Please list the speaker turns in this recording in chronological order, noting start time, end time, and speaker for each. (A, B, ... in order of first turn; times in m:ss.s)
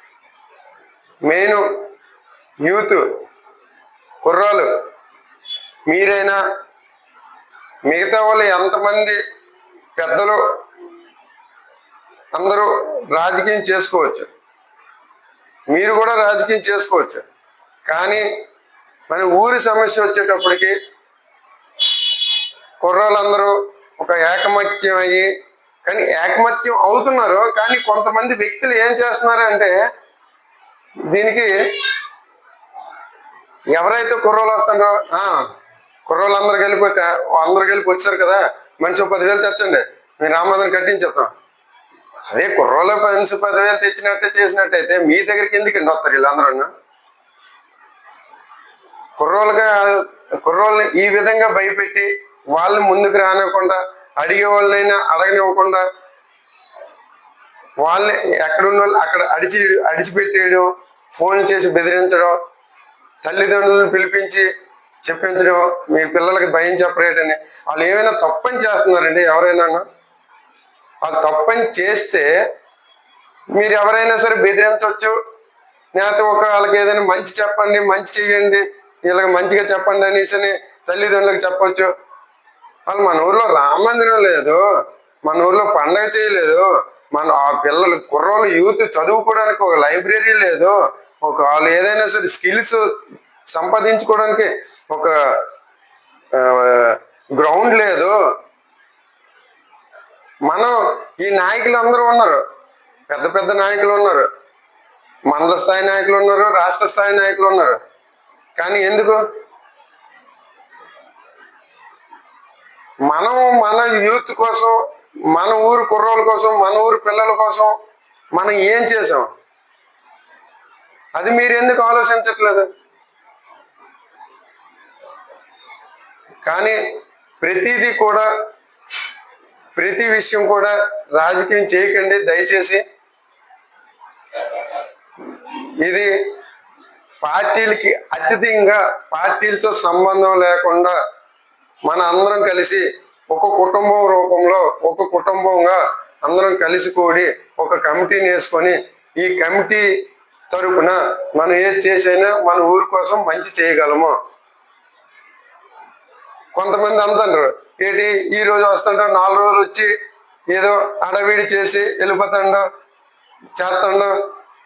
0:01.2-0:01.6 A
0:02.6-0:03.0 A
0:04.2-0:04.7 A
0:05.9-0:06.4 A
0:07.9-0:09.2 A
0:10.0-0:10.4 A
0:12.4-0:14.3 A
0:15.7-0:17.2 A
0:17.9-0:18.2 A
0:19.1-0:20.7 A
0:22.8-0:25.3 A
0:25.9-0:29.7 A
0:31.1-0:31.5 A
0:33.8-0:35.4 A
0:36.1-0:41.3 A
0:42.3-0:46.7 A
0:49.2-0:55.8 A
0:57.8-1:02.4 A
1:03.2-1:04.5 A
1:05.1-1:09.8 A
1:11.0-1:12.3 A
1:13.6-1:15.2 A
1:16.0-1:21.9 A
1:22.9-1:24.6 A
1:25.3-1:32.8 A
1:33.5-1:35.2 A
1:36.3-1:38.2 A
1:40.5-1:42.4 A
1:43.1-1:44.3 A
1:45.3-1:47.8 A
1:48.6-1:49.2 A
1:53.1-1:54.8 A
1:55.3-1:57.8 A
1:58.4-1:59.3 A
2:01.2-2:02.7 A
2:06.4-2:06.8 A
2:07.4-2:08.3 A
2:09.8-2:12.8 A
2:15.8-2:16.1 A
2:17.2-2:20.9 A
2:21.9-2:29.9 A
2:30.5-2:34.2 A
2:36.6-2:39.9 A
2:40.5-2:42.6 A
2:43.6-2:44.2 A